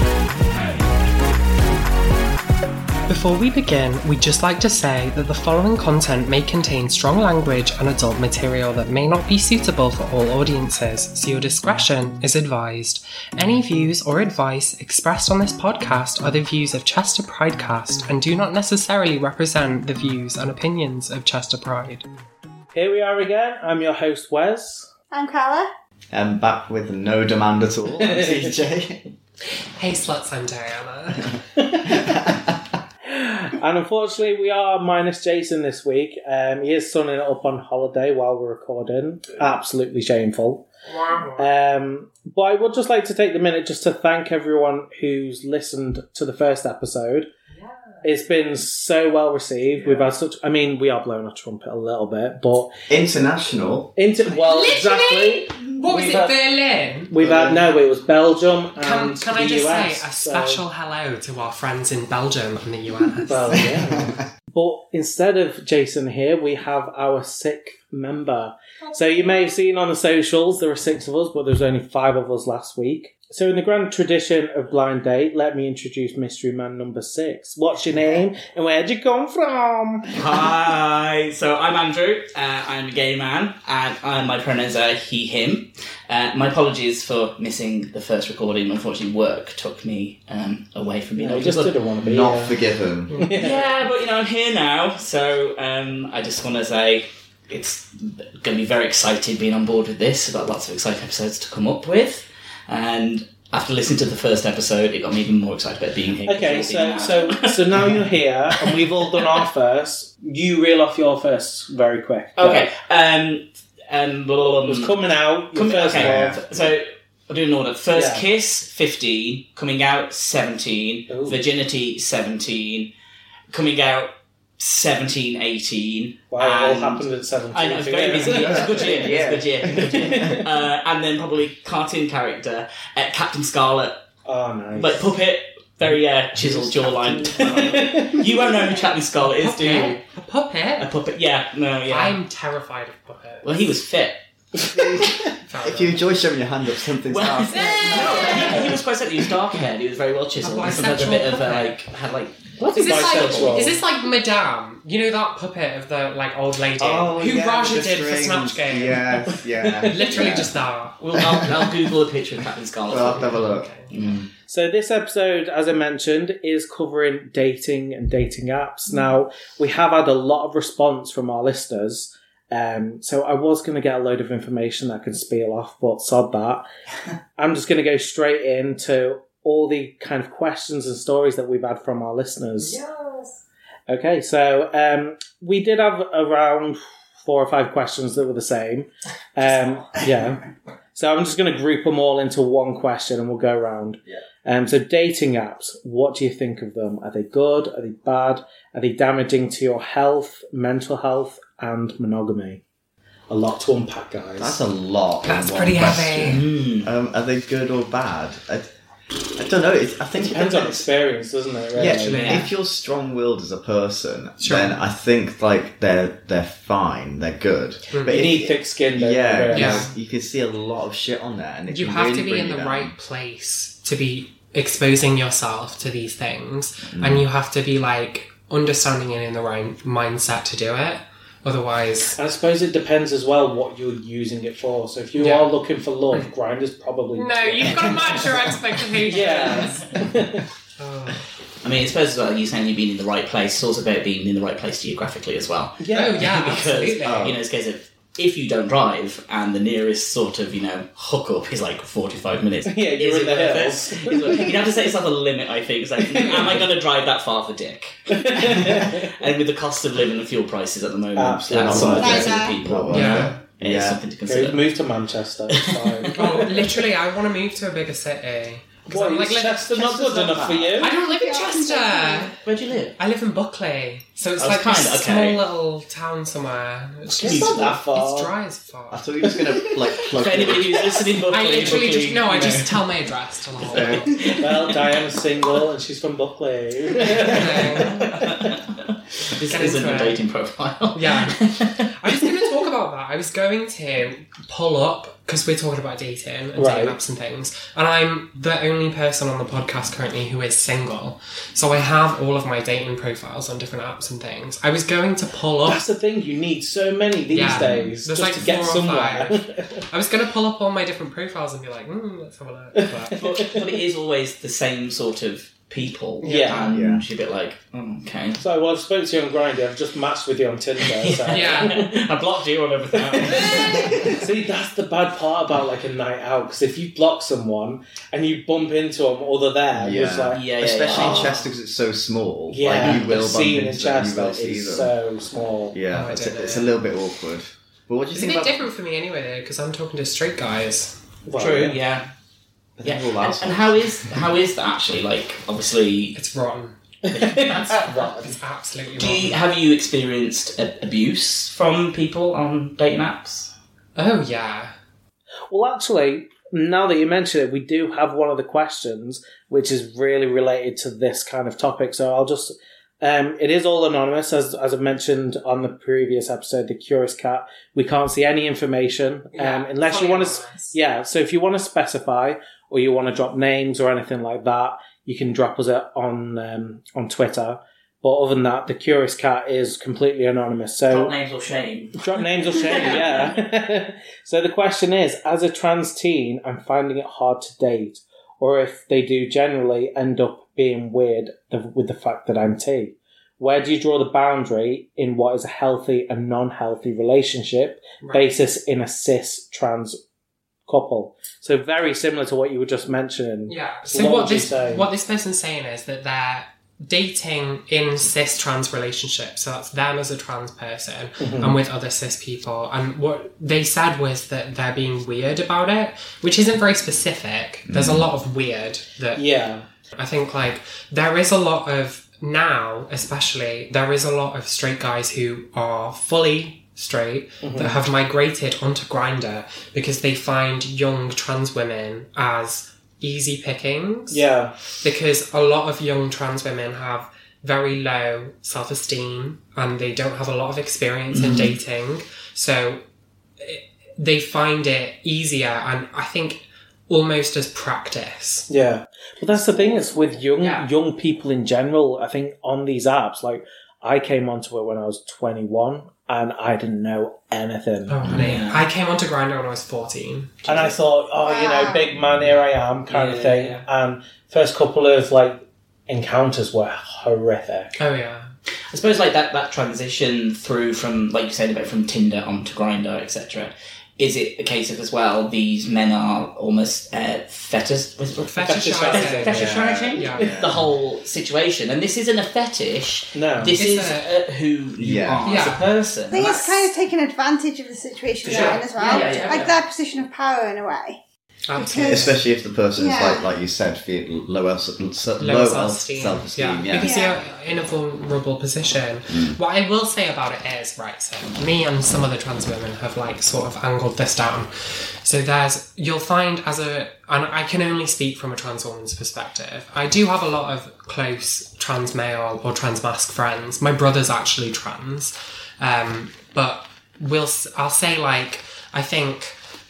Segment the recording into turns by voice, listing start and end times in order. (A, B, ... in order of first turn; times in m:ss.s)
0:03.1-0:22.0 A
0:22.7-0:24.9 B
0:25.1-0:25.7 C
0:26.1-0:29.1 D
0:28.1-0:28.4 B
0:29.8-0:31.4 A
0:31.7-0:32.1 B
0:31.9-0:32.6 D
0:33.0-0:40.6 B
0:40.9-0:41.5 A
0:41.4-0:47.3 B
0:48.0-0:52.7 B
0:49.8-0:50.1 D
0:52.9-0:53.9 D
0:54.0-0:56.3 B
0:54.3-0:57.1 A
0:57.1-1:00.6 B
0:57.1-0:57.7 D
0:58.8-1:03.6 A
1:03.3-1:20.1 B
1:03.5-1:04.2 D
1:20.1-1:31.8 E
1:31.2-1:32.6 B
1:32.0-1:33.1 D
1:33.1-1:33.4 A
1:33.2-1:33.6 B
1:33.3-1:48.1 E
1:46.2-1:52.7 B
1:48.6-1:49.4 E
1:52.4-1:55.0 E
1:54.6-1:56.4 B
1:55.5-2:02.9 E
1:55.9-1:56.7 D
1:57.9-1:58.2 B
2:01.1-2:01.4 B
2:03.5-2:14.0 E
2:06.3-2:10.5 B
2:08.2-2:10.4 D
2:14.2-2:15.1 B
2:14.7-2:20.0 E
2:16.4-2:18.5 B
2:19.2-2:20.9 A
2:20.8-2:22.2 E
2:21.9-2:23.5 A
2:23.4-2:24.2 E
2:24.6-2:28.6 D
2:25.4-2:26.0 A
2:27.0-2:33.7 E
2:27.8-2:28.5 A
2:30.4-2:31.8 A
2:32.6-2:33.8 B
2:32.7-2:41.0 A
2:36.8-2:40.5 D
2:39.6-2:40.4 B
2:41.0-2:44.2 E
2:41.1-2:41.7 D
2:42.9-2:44.3 D
2:43.0-2:43.9 A
2:44.5-2:56.6 B
2:57.4-3:02.8 B
3:02.6-3:03.4 A
3:03.9-3:10.4 B
3:10.9-3:22.6 B
3:23.3-3:24.6 B
3:24.4-3:28.7 D
3:25.2-3:26.4 A
3:26.2-3:26.9 E
3:29.4-3:30.9 D
3:30.2-3:32.4 B
3:31.7-3:42.9 D
3:31.9-3:32.5 A
3:32.1-3:32.5 E
3:34.4-3:34.8 A
3:37.9-3:38.4 A
3:38.1-3:39.9 B
3:39.5-3:39.9 A
3:41.7-3:52.2 A
3:46.9-3:47.2 D
3:52.2-4:00.4 B
3:55.2-3:55.5 A
3:57.1-4:00.0 A
3:59.2-3:59.7 E
4:00.8-4:01.2 A
4:01.6-4:24.7 E
4:05.8-4:06.4 B
4:05.9-4:07.3 A
4:07.0-4:07.4 D
4:12.7-4:14.7 B
4:16.0-4:16.6 B
4:18.1-4:19.1 B
4:21.1-4:22.2 B
4:21.5-4:24.0 D
4:22.0-4:22.6 C
4:22.9-4:23.3 A
4:24.2-4:26.8 B
4:25.5-4:26.5 E
4:26.1-4:32.4 A
4:28.9-4:30.9 B
4:30.3-4:30.8 E
4:30.9-4:32.3 C
4:32.4-4:33.0 E
4:33.0-4:39.0 A
4:34.4-4:35.4 E
4:37.1-4:37.8 E
4:37.2-4:38.3 B
4:38.9-4:41.0 D
4:39.2-4:39.8 B
4:40.1-4:42.7 E
4:41.3-4:44.3 A
4:42.3-4:42.6 B
4:43.6-4:44.3 D
4:44.2-4:45.0 E
4:44.3-4:48.5 B
4:47.0-4:48.6 E
4:47.2-4:48.0 A
4:49.2-4:52.2 E
4:49.5-4:50.2 A
4:50.9-5:05.8 A
4:56.5-4:57.0 B
5:05.7-5:09.8 B
5:07.3-5:13.2 A
5:07.4-5:07.9 D
5:12.8-5:13.6 B
5:13.2-5:18.4 E
5:16.2-5:16.6 A
5:16.2-5:16.8 B
5:16.7-5:17.0 D
5:18.4-5:22.1 B
5:20.8-5:24.1 E
5:21.3-5:21.9 A
5:22.9-5:30.4 B
5:29.7-5:34.9 D
5:30.3-5:31.4 E
5:30.9-5:31.5 A
5:32.5-5:35.8 B
5:32.8-5:33.1 E
5:35.7-5:38.6 D
5:35.9-5:36.7 A
5:38.1-5:41.0 A
5:41.2-5:41.8 B
5:41.3-5:42.1 E
5:42.8-5:44.2 D
5:42.8-5:46.2 E
5:46.1-5:46.8 A
5:47.0-5:48.4 B
5:47.1-5:47.9 E
5:48.2-5:49.4 A
5:49.0-5:53.5 E
5:54.0-5:54.7 A
5:55.5-6:21.1 B
6:09.3-6:10.8 A
6:20.9-6:23.4 E
6:22.0-6:40.0 B
6:38.0-6:38.3 A
6:40.7-6:44.9 B
6:43.5-6:59.2 A
6:51.2-6:51.6 B
6:57.7-6:58.1 D
6:59.2-6:59.6 B
7:00.0-7:14.2 A
7:07.4-7:07.8 B
7:14.1-7:14.6 B
7:14.8-7:22.8 A
7:21.1-7:21.5 E
7:23.4-7:28.5 A
7:28.5-7:38.1 B
7:29.5-7:29.8 E
7:30.4-7:30.6 E
7:37.9-7:40.6 A
7:38.1-7:38.6 E
7:40.4-7:47.7 B
7:41.2-7:41.9 C
7:42.9-7:43.6 E
7:47.8-7:48.3 A
7:48.7-8:06.3 E
7:58.3-8:00.4 A
7:58.4-7:59.8 B
7:59.6-8:00.6 D
8:03.1-8:03.5 B
8:03.5-8:04.1 A
8:04.8-8:05.4 D
8:05.2-8:06.7 A
8:06.1-8:11.0 C
8:08.2-8:09.5 E
8:08.2-8:09.6 A
8:11.5-8:12.2 A
8:11.5-8:12.1 C
8:11.7-8:17.0 D
8:12.8-8:13.2 C
8:15.2-8:39.4 A
8:16.8-8:17.2 C
8:19.1-8:19.4 D